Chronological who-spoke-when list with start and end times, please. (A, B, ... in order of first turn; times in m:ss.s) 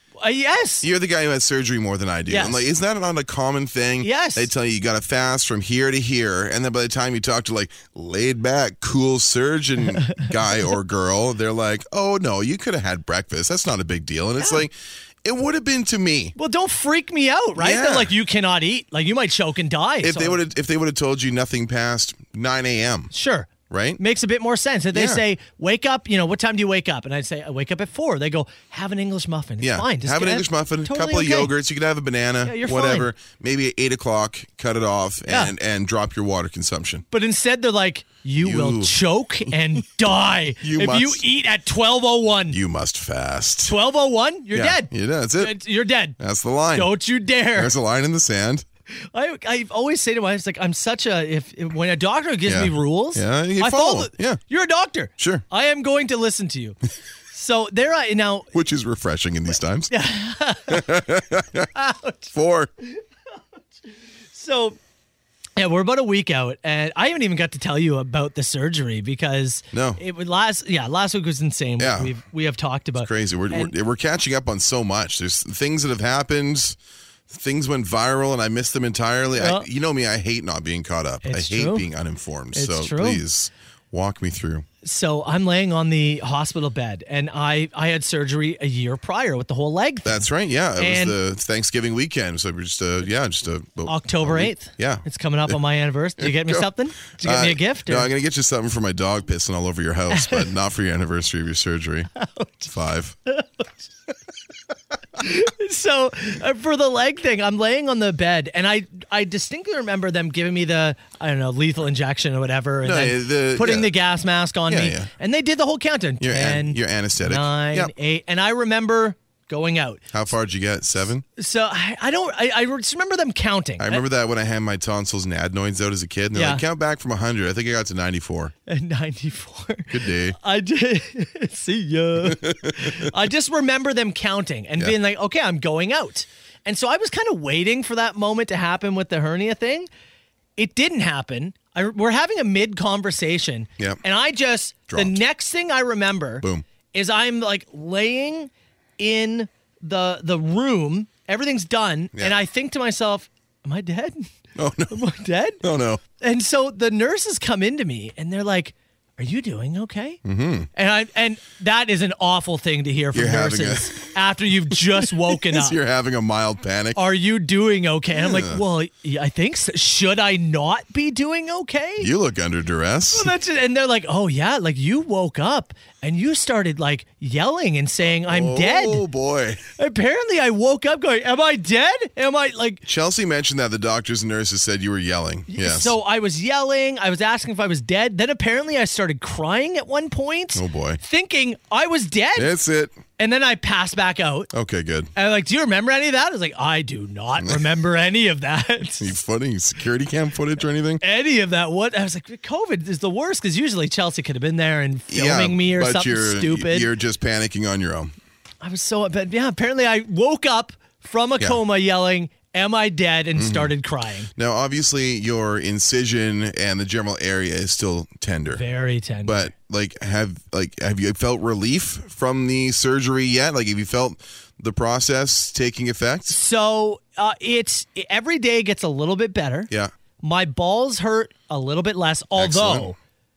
0:00.2-0:00.8 A
0:00.8-0:16.4 B
0:02.3-0:02.6 A
0:04.0-0:04.5 A
0:10.0-0:10.4 A
0:14.4-0:14.6 A
0:16.4-0:20.4 A
0:17.6-0:18.1 B
0:20.0-0:23.1 B
0:23.1-0:31.5 A
0:23.7-0:24.0 B
0:24.9-0:25.2 B
0:29.6-0:37.0 B
0:32.4-0:33.1 A
0:35.3-0:35.5 A
0:37.1-0:42.6 A
0:38.4-0:39.0 B
0:39.5-0:39.8 B
0:40.6-0:41.2 B
0:42.5-0:43.8 B
0:43.7-0:46.2 A
0:44.5-0:45.6 B
0:46.2-0:47.0 B
0:46.7-0:47.7 A
0:47.5-0:48.6 B
0:49.1-0:56.8 A
0:52.4-0:54.4 B
0:55.2-0:55.4 B
0:57.3-0:58.5 A
0:58.5-0:59.9 B
0:59.9-1:01.0 A
1:00.7-1:01.7 B
1:01.7-1:03.0 A
1:02.3-1:02.7 B
1:04.3-1:04.8 A
1:05.6-1:13.7 A
1:09.7-1:10.0 B
1:11.8-1:12.2 B
1:13.0-1:16.8 B
1:17.3-1:24.6 B
1:19.4-1:19.6 A
1:21.2-1:21.9 A
1:22.5-1:23.2 A
1:24.8-1:30.2 A
1:30.0-1:35.6 B
1:30.8-1:31.2 A
1:33.8-1:38.1 A
1:36.2-1:42.1 B
1:40.1-1:40.5 A
1:42.1-1:42.7 A
1:42.7-1:43.2 B
1:43.3-1:43.7 A
1:45.2-2:00.0 A
1:52.8-1:53.9 B
1:54.7-1:55.1 B
1:56.2-1:57.9 B
2:00.1-2:01.2 B
2:01.4-2:04.0 A
2:03.8-2:08.5 B
2:06.3-2:06.6 A
2:08.7-2:19.9 A
2:09.9-2:10.4 B
2:12.2-2:13.1 B
2:20.6-2:34.3 A
2:24.9-2:25.2 B
2:34.6-2:35.0 B
2:34.9-2:35.6 A
2:35.6-2:36.0 B
2:36.2-2:40.2 A
2:40.2-2:40.7 B
2:40.7-2:45.8 A
2:43.1-2:44.1 B
2:44.7-2:47.0 B
2:47.0-2:52.1 A
2:48.1-2:48.6 B
2:52.0-2:53.3 B
2:53.1-2:59.0 A
2:58.3-2:59.6 B
2:59.8-3:02.8 A
3:02.8-3:06.0 B
3:05.5-3:12.5 A
3:10.5-3:11.0 B
3:12.4-3:13.0 B
3:13.2-3:14.5 A
3:14.5-3:15.1 B
3:15.2-3:19.1 A
3:17.4-3:17.6 B
3:19.0-3:21.0 B
3:21.0-3:26.9 A
3:25.1-3:28.1 B
3:28.6-3:34.3 A
3:33.3-3:33.7 B
3:34.4-3:38.6 B
3:38.5-3:39.5 A
3:39.2-3:46.4 B
3:46.3-3:53.0 A
3:52.4-3:52.9 B